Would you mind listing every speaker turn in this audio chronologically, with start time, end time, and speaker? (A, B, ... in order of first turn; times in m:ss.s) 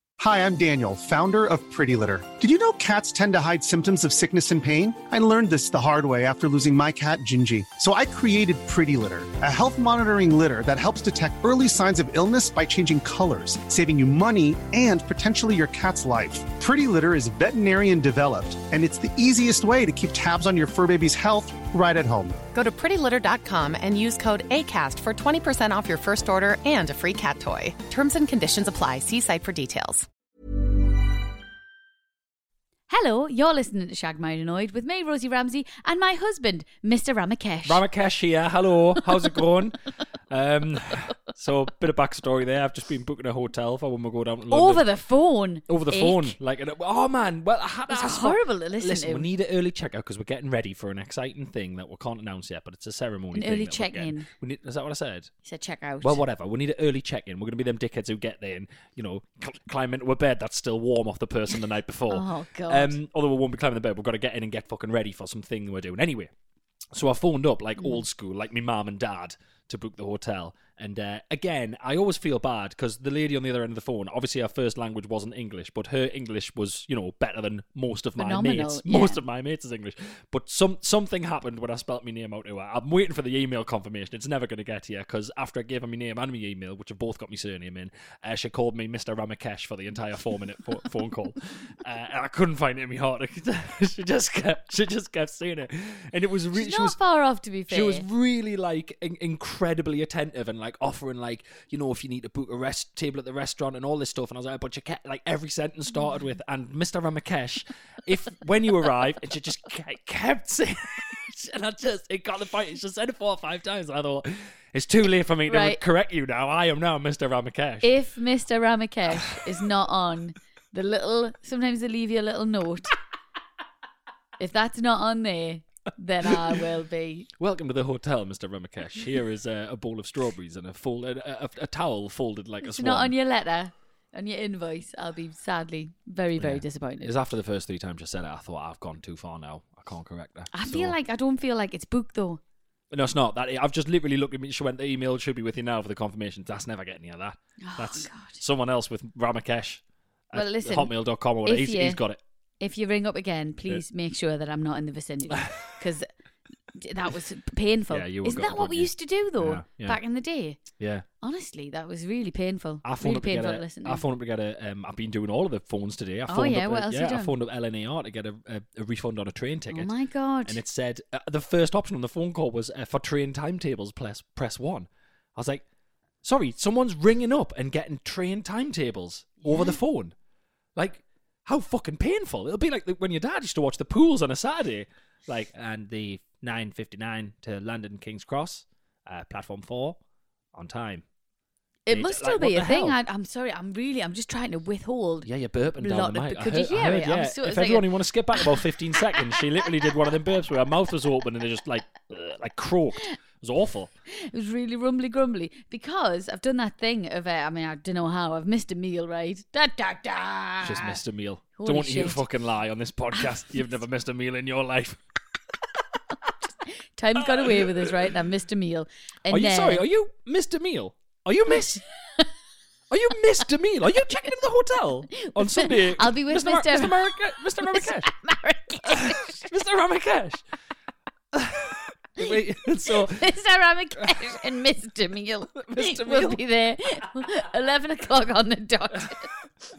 0:00.2-0:22.4 A
0:22.5-0:30.1 B
0:32.9-0:37.8 C
0:37.6-0:39.8 D
0:40.3-0:44.9 D
0:44.5-0:46.4 C
0:45.7-0:55.3 D
0:47.9-0:49.3 C
0:53.3-0:54.3 C
0:55.4-0:56.2 C
0:56.0-1:06.3 D
1:02.1-1:03.0 C
1:06.9-1:37.0 D
1:18.2-1:19.2 C
1:36.5-1:38.1 C
1:37.7-1:57.9 D
1:55.5-1:55.8 C
1:57.8-2:02.9 C
2:04.4-2:07.3 C
2:07.4-2:13.1 D
2:12.6-2:17.1 C
2:16.4-2:21.0 D
2:20.5-2:22.4 C
2:22.9-2:32.2 D
2:27.6-2:28.4 C
2:30.3-2:30.9 C
2:31.4-2:32.0 C
2:32.6-2:36.1 C
2:35.4-2:35.6 D
2:36.8-2:40.6 C
2:37.9-2:40.0 D
2:40.8-2:41.0 D
2:41.2-2:44.0 C
2:42.8-2:49.9 D
2:46.3-2:47.3 C
2:49.7-2:50.6 C
2:50.5-2:55.6 D
2:56.2-3:00.1 D
2:59.4-2:59.8 C
3:00.8-3:10.0 D
3:10.5-3:11.0 D
3:11.9-3:17.9 C
3:11.9-3:13.0 D
3:15.2-3:23.9 D
3:24.1-3:31.0 C
3:30.6-3:35.0 D
3:31.6-3:32.2 C
3:36.7-3:39.8 C
3:37.2-3:38.1 D
3:39.3-3:41.8 D
3:42.9-3:48.1 D
3:45.2-3:49.5 C
3:48.8-3:50.4 D
3:51.3-3:53.3 D
3:52.9-3:59.3 C
3:54.0-3:54.3 D
3:55.6-3:56.4 D